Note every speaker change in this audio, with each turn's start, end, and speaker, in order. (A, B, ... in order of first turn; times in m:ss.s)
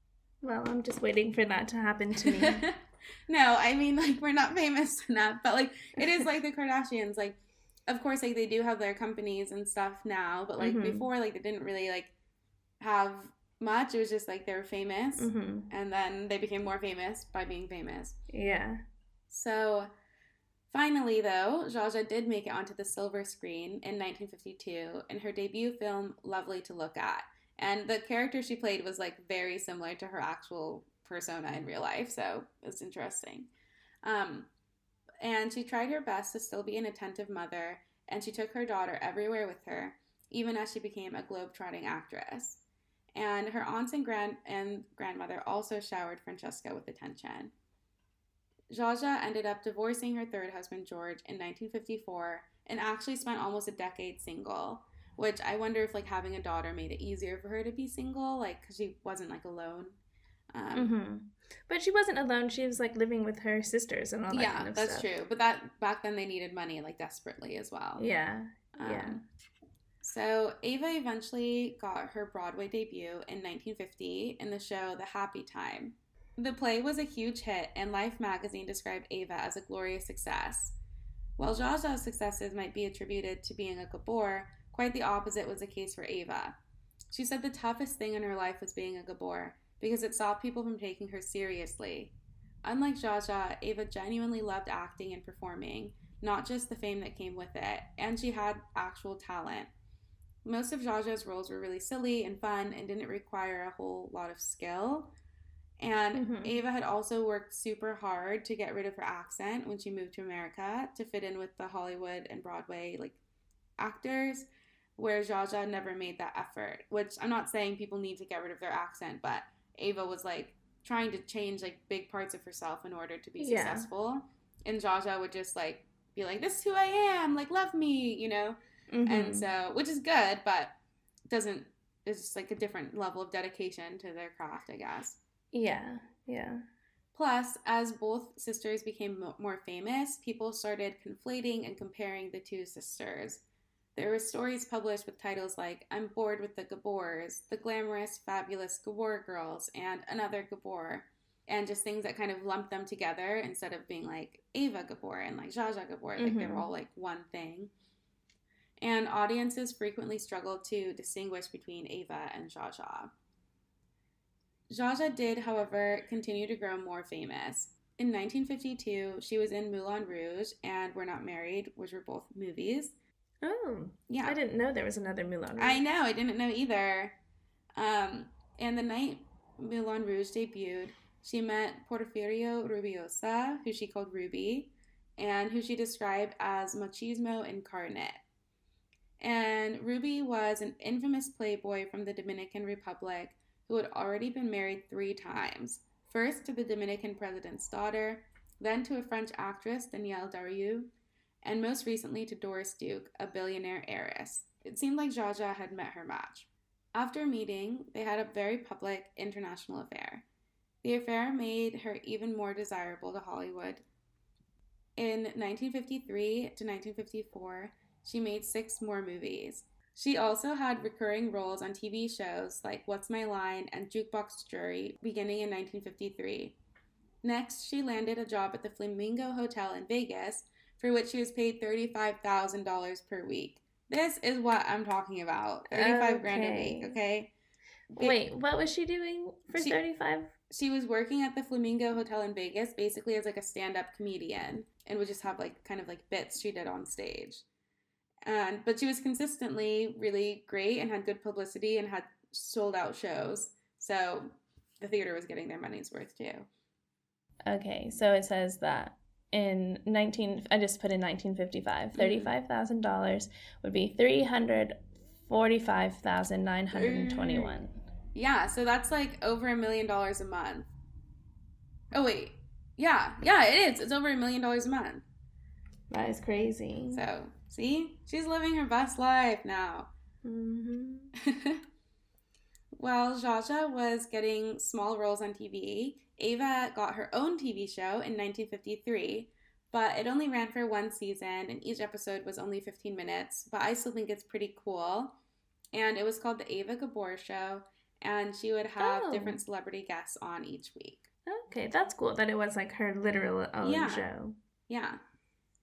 0:00.4-0:02.7 A
0:02.2-0:02.8 B
0:03.3-0:12.1 B
0:10.6-0:11.1 A
0:12.8-0:18.2 B
0:15.2-0:15.7 A
0:18.3-0:18.8 A
0:19.3-0:19.9 B
0:20.7-0:33.5 B
0:34.0-0:34.5 B
0:35.2-0:42.6 B
0:43.2-0:47.5 B
0:48.7-1:00.0 B
1:00.5-1:00.9 B
1:00.7-1:05.1 A
1:04.3-1:08.0 B
1:08.0-1:09.2 A
1:08.8-1:09.2 B
1:10.0-1:20.8 B
1:21.4-1:26.5 B
1:27.1-1:39.7 B
1:40.4-1:45.1 B
1:45.8-1:53.2 B
1:46.1-1:46.5 A
1:53.8-2:10.7 B
2:03.4-2:03.9 A
2:08.9-2:09.5 A
2:11.3-2:15.2 B
2:15.5-2:16.6 A
2:17.1-2:23.4 B
2:24.0-2:37.7 B
2:36.2-2:36.7 A
2:38.8-2:43.1 B
2:44.7-2:52.9 B
2:53.4-2:55.8 A
2:54.1-2:54.4 B
2:55.6-2:57.2 B
2:57.8-3:08.2 B
3:09.2-3:20.9 B
3:21.4-3:30.2 B
3:30.8-3:33.8 B
3:35.0-3:46.6 B
3:47.2-3:57.3 B
3:55.7-3:57.0 A
3:57.9-3:58.2 B
3:57.9-4:00.3 A
3:59.5-3:59.8 B
4:00.5-4:07.4 B
4:08.2-4:16.5 B
4:17.5-4:27.8 A
4:22.0-4:22.3 B
4:26.7-4:27.6 B
4:28.1-4:30.7 B
4:31.9-4:35.0 B
4:35.9-4:37.0 A
4:36.9-4:39.9 B
4:40.2-4:41.1 A
4:41.2-4:41.6 B
4:42.8-4:55.2 B
4:55.7-5:01.1 B
4:58.8-4:59.4 A
5:01.3-5:04.4 A
5:03.6-5:04.1 B
5:04.7-5:05.0 B